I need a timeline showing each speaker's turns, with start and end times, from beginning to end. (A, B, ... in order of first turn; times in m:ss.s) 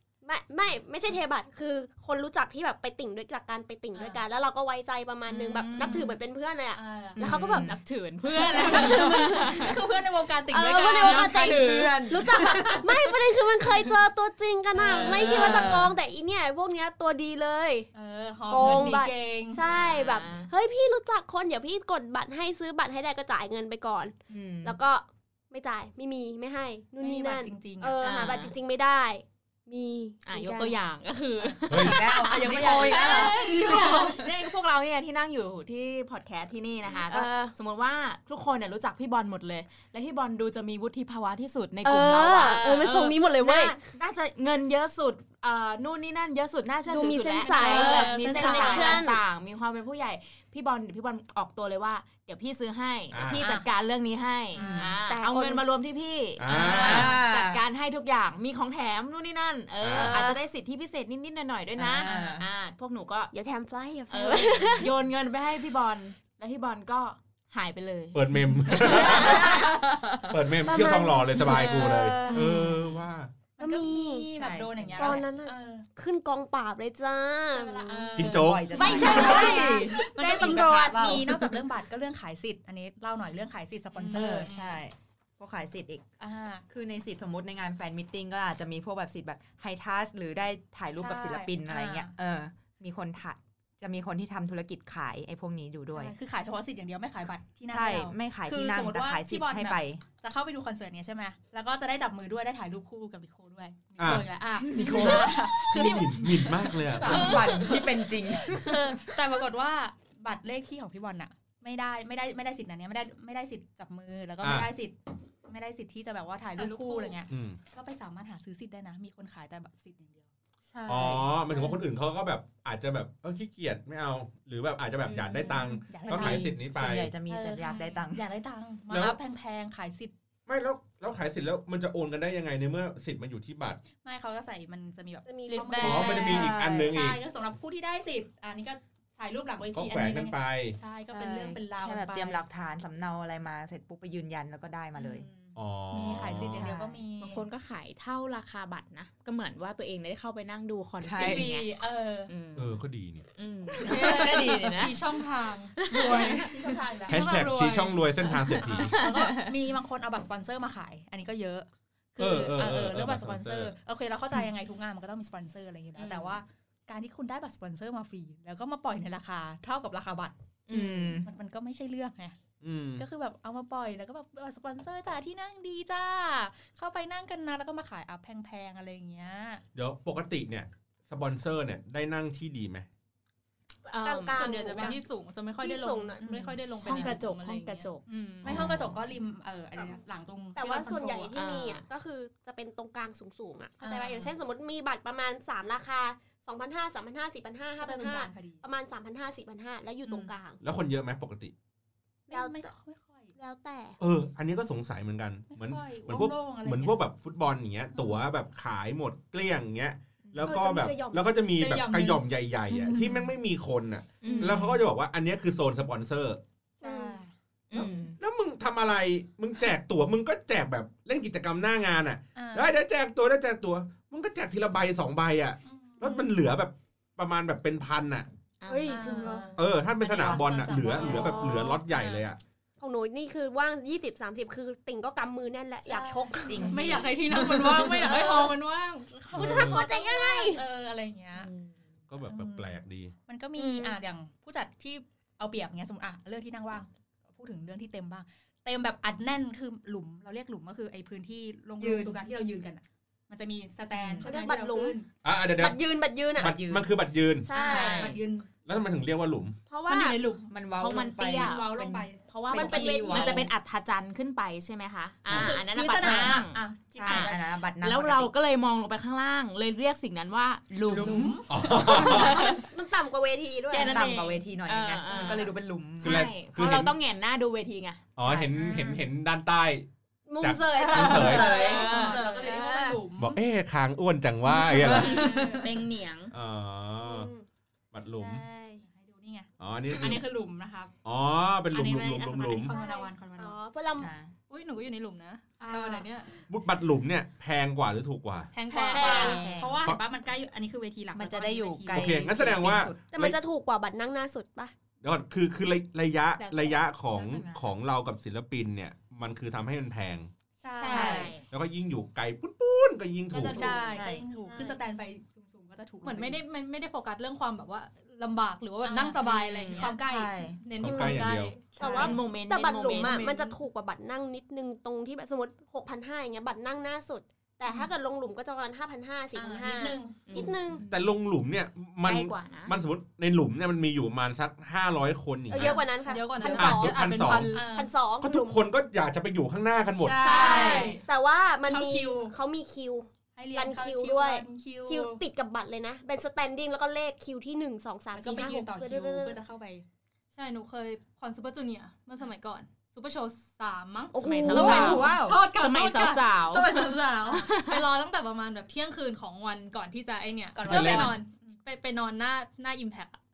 0:00.2-0:07.7 A
0:03.9-0:04.2 B
0:05.3-0:05.9 C
0:05.6-0:06.1 D
0:05.8-0:06.1 B
0:06.7-0:07.2 B
0:07.2-0:07.8 E
0:07.2-0:09.8 C
0:08.3-0:11.5 B
0:08.4-0:09.8 A
0:10.5-0:17.9 A
0:11.0-0:12.8 C
0:11.0-0:12.9 E
0:14.8-0:15.7 B
0:14.8-0:15.7 C
0:15.1-0:15.9 E
0:17.9-0:19.6 B
0:18.5-0:30.7 A
0:19.6-0:20.5 C
0:24.3-0:24.8 E
0:27.0-0:28.0 B
0:28.0-0:28.5 C
0:30.2-1:03.3 C
0:31.4-0:34.1 B
0:31.7-0:32.0 F
0:31.7-0:34.3 E
0:36.8-0:37.5 A
0:41.8-0:43.8 A
0:46.9-0:49.2 A
0:47.4-0:49.0 B
0:53.1-0:53.4 F
0:53.2-0:53.7 B
0:54.5-0:54.9 B
0:54.6-0:55.0 E
0:55.1-0:55.6 A
0:56.4-0:57.2 F
0:56.6-0:57.0 B
0:56.7-0:57.6 E
0:59.8-1:00.2 F
0:59.9-1:00.4 A
1:01.8-1:02.5 E
1:02.0-1:02.4 B
1:03.3-1:04.9 A
1:04.1-1:09.5 C
1:08.1-1:09.5 F
1:08.7-1:10.4 E
1:08.8-1:09.8 A
1:10.3-1:13.3 F
1:10.6-1:12.6 A
1:11.4-1:12.9 E
1:13.6-1:15.8 B
1:13.6-1:14.2 A
1:14.3-1:15.2 E
1:15.0-1:18.2 A
1:17.5-1:24.8 B
1:18.1-1:19.0 F
1:18.2-1:21.6 E
1:18.8-1:20.6 A
1:19.2-1:19.5 D
1:24.0-1:26.0 E
1:24.1-1:24.6 D
1:26.2-1:26.6 B
1:26.7-1:36.1 E
1:31.0-1:32.1 B
1:35.9-2:00.3 B
1:37.7-1:40.0 E
1:44.0-1:44.3 F
1:44.6-1:45.4 E
1:44.8-1:47.5 F
1:46.9-1:49.0 E
1:54.4-1:54.7 F
1:56.6-1:57.2 D
1:57.3-1:57.6 F
2:00.7-2:01.7 E
2:00.9-2:07.1 F
2:05.0-2:05.7 C
2:05.7-2:06.6 B
2:06.1-2:08.2 E
2:07.3-2:10.1 B
2:08.9-2:09.2 F
2:10.5-2:13.8 F
2:14.0-2:22.4 B
2:15.2-2:16.9 A
2:15.8-2:17.2 F
2:19.7-2:20.8 F
2:21.1-2:25.2 E
2:25.0-2:27.4 B
2:25.5-2:26.7 F
2:26.2-2:27.0 E
2:27.2-2:31.7 C
2:31.0-2:31.5 E
2:31.2-2:32.3 B
2:32.3-2:32.7 C
2:32.6-2:33.3 F
2:33.4-2:35.0 C
2:33.8-2:36.4 D
2:35.8-2:36.7 C
2:35.9-2:50.3 B
2:37.1-2:38.3 D
2:37.1-2:39.0 F
2:38.5-2:39.5 C
2:42.2-2:43.7 F
2:46.0-2:46.4 C
2:50.7-2:51.2 C
2:50.7-2:51.3 E
2:51.2-2:52.4 B
2:52.6-2:53.0 F
2:53.0-2:59.6 B
2:59.7-3:02.9 F
3:03.9-3:04.9 C
3:03.9-3:05.0 A
3:04.3-3:08.6 D
3:04.4-3:05.0 B
3:05.6-3:06.4 A
3:06.2-3:07.1 B
3:06.8-3:08.0 C
3:08.4-3:11.3 B
3:08.5-3:08.8 F
3:10.6-3:20.6 A
3:11.3-3:11.8 C
3:13.8-3:14.3 B
3:17.8-3:18.6 B
3:20.6-3:21.5 F
3:22.3-3:23.3 B
3:22.3-3:22.7 A
3:23.4-3:24.0 A
3:24.0-3:36.4 F
3:25.5-3:27.0 B
3:30.4-3:31.3 A
3:31.6-3:33.3 B
3:34.2-3:34.6 C
3:34.4-3:34.8 E
3:36.8-3:37.3 B
3:36.8-3:37.2 A
3:37.7-3:38.2 E
3:37.8-3:48.3 F
3:42.3-3:42.7 B
3:45.6-3:46.3 B
3:48.6-3:49.4 C
3:48.6-3:49.6 A
3:48.8-3:52.2 B
3:49.5-3:52.4 F
3:51.0-3:51.8 A
3:52.8-3:57.0 A
3:55.8-3:57.0 B
3:56.4-3:58.0 E
3:56.7-3:59.4 D
3:58.0-3:58.5 A
3:59.2-4:01.5 B
3:59.4-4:00.6 A
3:59.4-3:59.8 F
4:01.3-4:01.8 C
4:02.1-4:03.1 F
4:02.2-4:15.1 B
4:03.6-4:04.0 A
4:11.8-4:12.2 D
4:13.9-4:14.3 E
4:14.2-4:15.0 A
4:15.2-4:15.8 F
4:15.6-4:16.6 A
4:16.4-4:16.9 E
4:16.4-4:18.0 F
4:17.4-4:18.2 A
4:17.5-4:18.5 B
4:17.7-4:18.0 E
4:18.6-4:19.6 F
4:19.7-4:20.2 A
4:19.9-4:20.4 D
4:19.9-4:20.5 B
4:20.5-4:23.5 E
4:20.8-4:21.8 C
4:21.2-4:22.2 B
4:22.3-4:32.6 C
4:22.5-4:23.5 A
4:25.3-4:25.6 F
4:25.3-4:27.4 B
4:26.0-4:26.4 E
4:26.9-4:28.3 E
4:30.8-4:31.4 E
4:30.9-4:31.5 B
4:31.5-4:32.5 F
4:31.9-4:34.0 A
4:33.7-4:38.1 C
4:33.8-4:36.3 E
4:36.0-4:36.9 F
4:38.2-4:39.9 F
4:38.2-4:38.5 E
4:38.5-4:39.0 B
4:40.3-4:43.0 A
4:40.4-4:41.5 F
4:40.8-4:43.0 E
4:41.0-4:43.4 B
4:41.4-4:42.5 C
4:43.2-4:45.3 F
4:44.5-4:45.7 E
4:44.6-4:46.3 C
4:45.1-4:45.6 B
4:46.3-4:47.3 F
4:47.0-4:47.4 A
4:47.9-4:48.4 F
4:48.2-4:48.8 E
4:48.8-4:50.9 B
4:49.6-4:50.2 F
4:51.0-4:52.7 F
4:51.7-4:53.6 B
4:52.6-4:54.1 A
4:54.0-4:54.3 E
4:54.5-4:56.3 D
4:55.7-4:56.0 B
4:56.5-4:58.5 F
4:58.5-4:59.5 D
4:58.7-5:02.2 B
4:58.9-4:59.5 A
4:59.1-4:59.8 E
5:01.1-5:03.0 E
5:01.9-5:03.4 F
5:03.0-5:04.7 A
5:05.0-5:10.3 F
5:06.4-5:06.7 D
5:07.1-5:07.7 E
5:10.6-5:11.4 B
5:10.8-5:11.3 E
5:10.8-5:11.4 C
5:11.0-5:13.9 F
5:13.3-5:14.6 D
5:13.3-5:16.4 B
5:13.6-5:14.8 E
5:16.0-5:23.6 D
5:18.8-5:20.2 B
5:19.6-5:19.9 C
5:19.8-5:20.6 E
5:20.8-5:21.7 F
5:21.8-5:30.8 A
5:21.8-5:22.2 B
5:21.8-5:23.2 C
5:21.8-5:22.1 E
5:29.3-5:30.5 B
5:30.3-5:30.6 C
5:30.8-5:35.8 F
5:32.0-5:32.8 C
5:35.5-5:37.0 A
5:35.9-5:37.7 D
5:36.4-5:36.8 E
5:36.5-5:37.6 F
5:37.5-5:37.9 B
5:37.7-5:38.6 A
5:38.2-5:40.3 F
5:40.0-5:41.0 B
5:40.0-5:41.0 D
5:40.2-5:49.4 A
5:40.3-5:41.0 E
5:41.6-5:42.3 B
5:43.4-5:45.2 B
5:48.1-5:49.8 B
5:50.3-5:56.0 D
5:54.1-5:55.0 A
5:54.1-5:57.9 C
5:54.5-5:55.4 E
5:54.5-5:57.5 B
5:57.6-6:03.2 D
6:00.5-6:01.6 B
6:00.6-6:01.1 F